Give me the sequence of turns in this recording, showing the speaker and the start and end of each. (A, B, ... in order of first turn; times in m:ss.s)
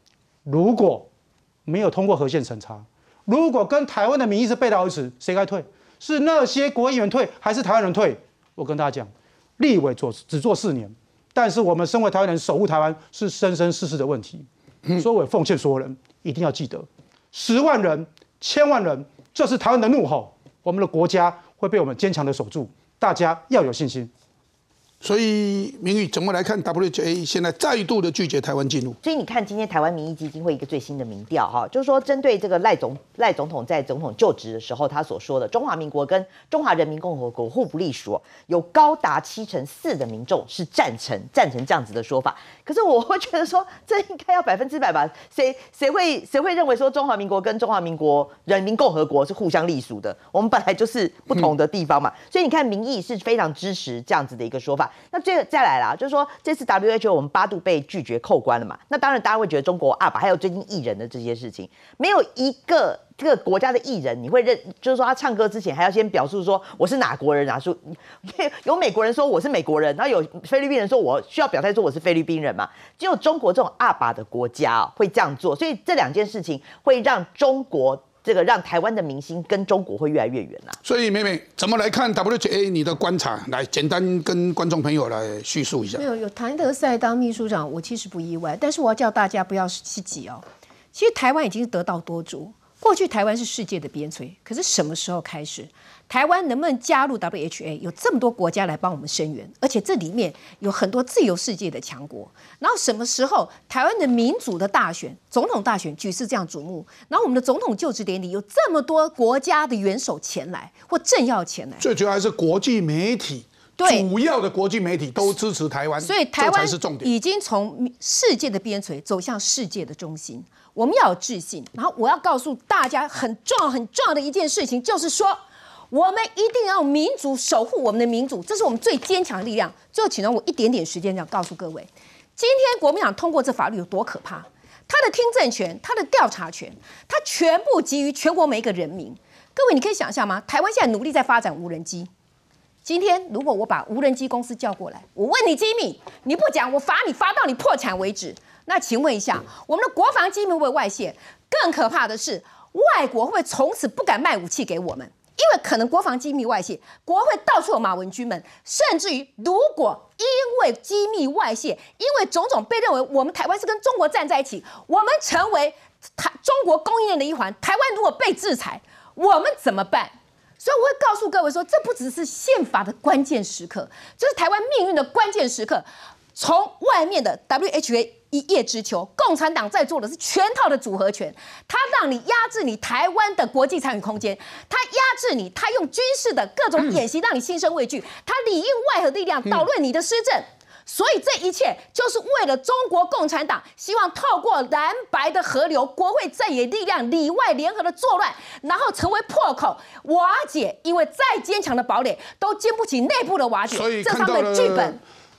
0:00.4-0:01.1 A
0:01.6-0:24.1 A
0:25.0-0:29.0 B
0:29.0-1:20.8 C
1:20.8-1:26.0 B
1:25.9-1:51.8 D
1:51.8-1:57.1 B
1:53.8-1:54.1 D
1:56.0-2:05.4 D
2:05.9-2:22.1 D
2:22.8-3:25.0 D
3:23.7-3:25.0 B